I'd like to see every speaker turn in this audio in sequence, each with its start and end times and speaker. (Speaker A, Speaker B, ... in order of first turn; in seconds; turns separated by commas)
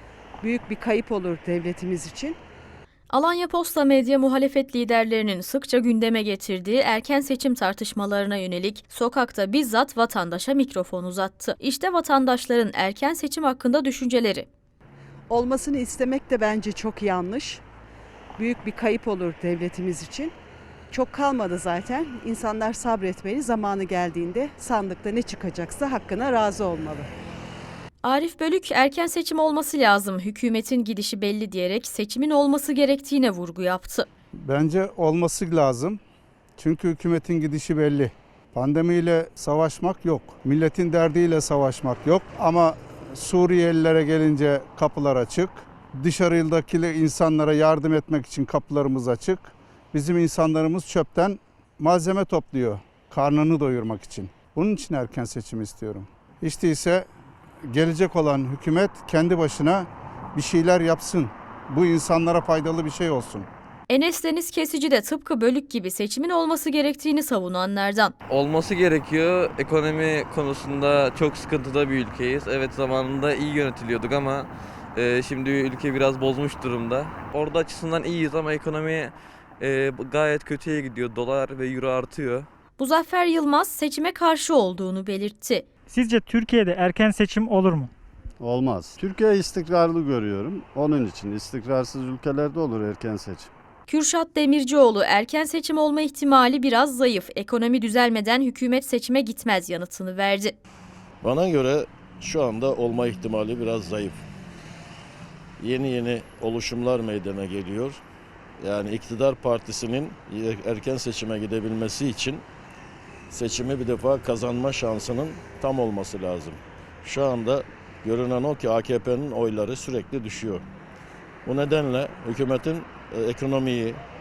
Speaker A: 0.4-2.4, Speaker B: 3.1-14.4, Speaker A: 15.3-17.6, Speaker A: 18.4-20.3, Speaker A: 20.9-27.1, Speaker B: 28.0-34.1, Speaker C: 34.4-36.0, Speaker C: 36.6-57.1, Speaker C: 57.6-63.5, Speaker B: 63.9-68.1, Speaker D: 68.3-82.5, Speaker B: 82.8-85.7, Speaker E: 85.9-87.9, Speaker F: 88.4-93.5, Speaker B: 93.9-100.5, Speaker G: 101.2-104.2, Speaker G: 105.6-108.0, Speaker G: 108.6-112.4, Speaker G: 113.3-120.6, Speaker G: 121.4-124.0